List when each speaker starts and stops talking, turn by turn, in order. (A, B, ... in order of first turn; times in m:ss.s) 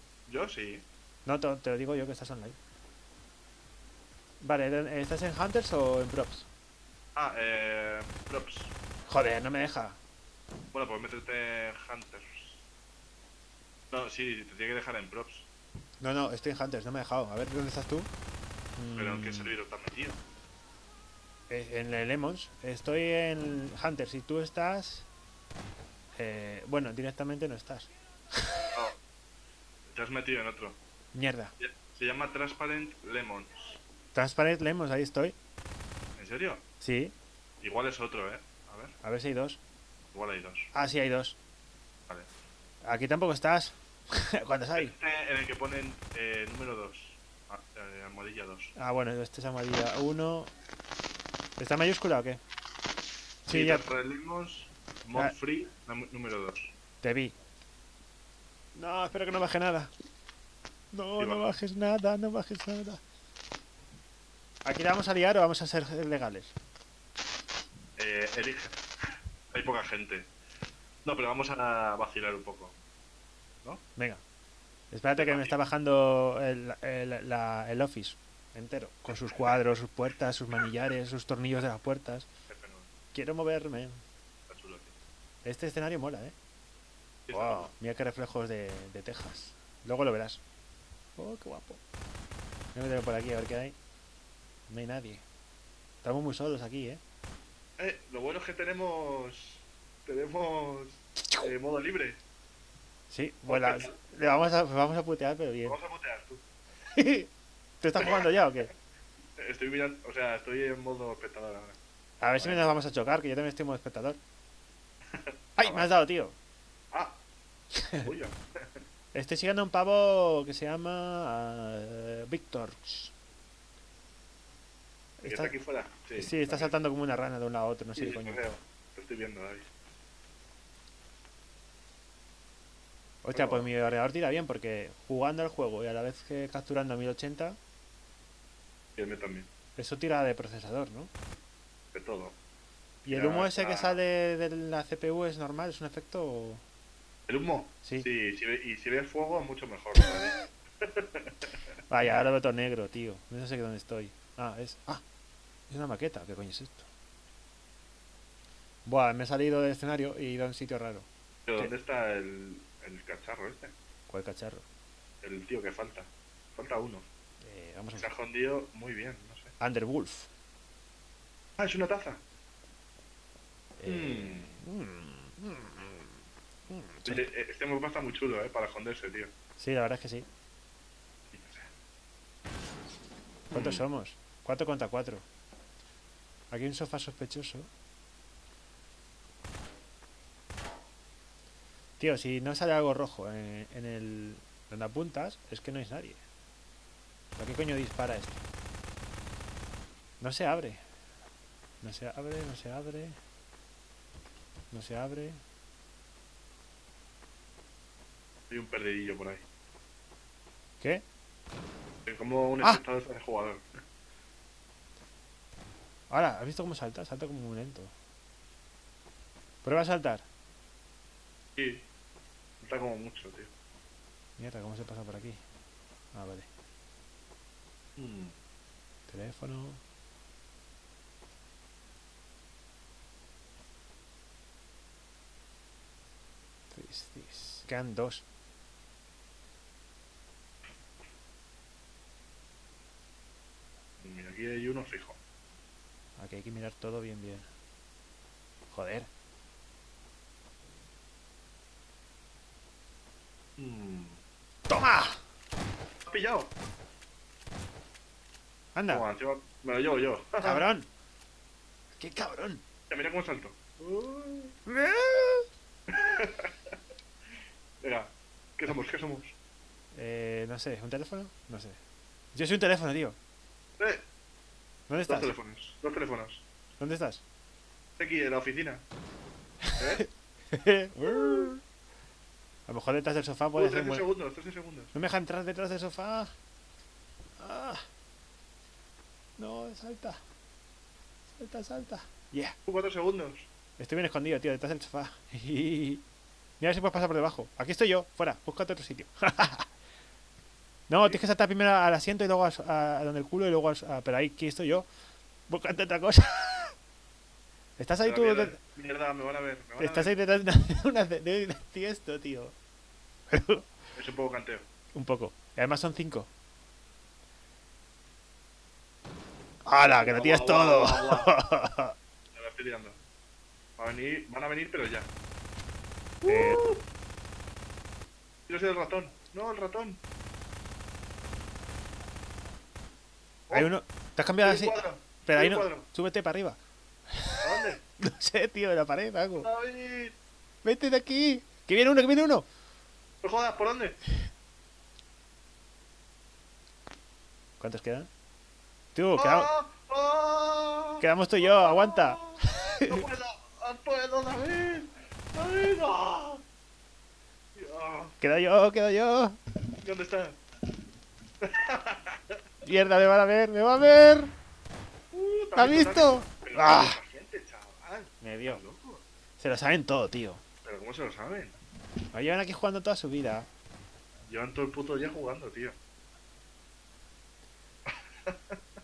0:00.3-0:00.8 A
0:01.3-0:02.6 B
0:04.4-0:06.5 B
0:07.2-0:08.7 A
0:09.1-0:10.0 B
0:10.7-0:12.6 A
0:13.9-0:15.5 A
0:16.0-0:18.1 B
0:18.8-0:19.5 B
0:19.0-0:20.2 A
0:21.5-0:25.1 B
0:26.2-0:28.6 B
0:28.7-0:29.0 A
0:29.9-0:30.8 A
0:31.1-0:31.5 B
0:31.6-0:33.8 A
0:34.1-0:35.4 B
0:36.2-0:36.6 A
0:36.8-0:37.1 B
0:37.6-0:39.0 A
0:39.0-0:39.6 B
0:40.1-0:40.7 A
0:40.7-0:41.4 B
0:42.8-0:45.0 B
0:44.8-0:48.8 A
0:48.8-0:50.5 B
0:51.6-0:52.4 B
0:53.5-0:53.8 B
0:53.5-0:56.7 A
0:57.0-0:57.3 B
0:58.8-0:59.9 B
1:00.9-1:03.0 B
1:01.2-1:01.5 A
1:04.6-1:06.5 B
1:08.0-1:08.8 A
1:09.5-1:10.3 A
1:11.0-1:12.8 A
1:14.0-1:14.2 B
1:14.9-1:22.3 B
1:15.2-1:15.5 A
1:19.1-1:19.5 A
1:22.5-1:22.9 A
1:23.1-1:24.0 B
1:24.5-1:25.0 A
1:25.4-1:26.4 B
1:27.3-1:27.7 A
1:27.3-1:30.4 B
1:31.2-1:31.8 B
1:32.8-1:33.8 B
1:34.7-1:35.2 B
1:36.0-1:37.0 B
1:37.8-1:42.2 A
1:43.1-1:45.8 B
1:43.5-1:44.0 A
1:45.6-1:46.4 A
1:46.9-1:47.3 B
1:47.8-1:48.7 B
1:49.4-1:51.8 A
1:52.2-1:54.2 B
1:52.4-1:52.8 A
1:55.1-1:55.9 A
1:55.6-1:56.4 B
1:56.9-1:57.2 A
1:57.8-1:58.1 B
1:58.0-1:58.4 A
1:59.1-2:03.1 B
2:05.2-2:05.5 B
2:05.2-2:06.7 A
2:06.2-2:08.4 B
2:08.0-2:09.7 A
2:13.2-2:17.6 B
2:13.3-2:13.7 A
2:19.0-2:19.5 A
2:19.8-2:21.1 B
2:21.9-2:22.4 A
2:23.0-2:26.6 B
2:23.1-2:24.0 A
2:27.3-2:31.6 A
2:31.9-2:35.0 B
2:35.7-2:36.9 B
2:38.8-2:41.7 B
2:41.5-2:43.7 A
2:44.1-2:44.6 B
2:45.2-2:47.1 A
2:47.4-2:48.1 B
2:47.9-2:49.5 A
2:49.6-2:50.3 B
2:51.6-2:52.2 A
2:53.8-2:56.1 B
2:53.8-2:54.6 A
2:56.7-2:57.2 B
2:57.1-2:59.3 A
2:59.6-3:00.3 B
3:01.3-3:01.7 A
3:03.5-3:03.8 A
3:03.5-3:05.2 B
3:06.5-3:07.7 B
3:12.0-3:16.2 B
3:17.4-3:18.4 B
3:20.2-3:20.8 B
3:21.8-3:23.2 B
3:24.7-3:25.4 B
3:28.5-3:29.4 A
3:32.1-3:33.7 A
3:36.1-3:37.9 B
3:39.6-3:40.3 B
3:41.6-3:41.9 A
3:42.6-3:43.5 A
3:44.4-3:45.4 B
3:46.1-3:46.5 B
3:48.0-3:48.4 A
3:49.1-3:49.8 B
3:56.7-3:58.2 B
4:04.0-4:05.2 A
4:06.2-4:07.5 B
4:08.7-4:09.1 B
4:13.6-4:14.2 A
4:14.7-4:15.2 B
4:16.1-4:16.5 A
4:18.8-4:19.1 B
4:18.9-4:20.6 A
4:20.4-4:20.9 B
4:22.0-4:22.6 B
4:22.9-4:24.6 A
4:24.7-4:25.5 B
4:25.9-4:26.7 A
4:27.8-4:29.4 A
4:29.9-4:31.8 B
4:32.3-4:33.2 B
4:34.9-4:35.3 B
4:35.1-4:36.4 A
4:36.8-4:37.2 B
4:38.0-4:38.8 A
4:39.7-4:41.6 B
4:39.8-4:40.0 A
4:41.1-4:41.5 A
4:42.7-4:44.1 B
4:43.6-4:44.9 A
4:44.9-4:46.3 B
4:47.4-4:47.8 B
4:49.4-4:50.2 B
4:51.4-4:52.6 B
4:52.7-4:53.5 A
4:53.8-4:56.0 B
4:56.6-4:59.7 B
5:00.9-5:04.9 B
5:05.5-5:06.7 B
5:07.8-5:08.6 B
5:08.0-5:10.1 A
5:09.8-5:12.6 B
5:13.3-5:13.7 B
5:14.0-5:14.7 A
5:14.9-5:16.3 B
5:19.7-5:21.9 B
5:19.9-5:21.3 A
5:22.3-5:23.0 A
5:23.8-5:25.1 A
5:26.2-5:26.8 A
5:26.3-5:26.6 B
5:28.5-5:30.0 A
5:33.5-5:36.6 B
5:34.4-5:35.9 A
5:37.1-5:39.5 B
5:37.4-5:37.8 A
5:39.4-5:40.2 A
5:40.6-5:42.4 B
5:43.2-5:44.0 A
5:47.6-5:48.1 B
5:49.0-5:49.5 B
5:49.2-5:56.4 A
5:51.0-5:53.0 B
5:57.6-5:58.2 A
5:58.2-5:59.4 B
5:59.8-6:00.4 A
6:01.4-6:02.4 A
6:02.6-6:04.3 B
6:05.1-6:09.0 A
6:05.6-6:07.0 B
6:08.2-6:08.6 B
6:09.4-6:10.4 B
6:10.6-6:11.6 A
6:12.1-6:13.5 B
6:14.3-6:15.8 A
6:17.9-6:18.6 A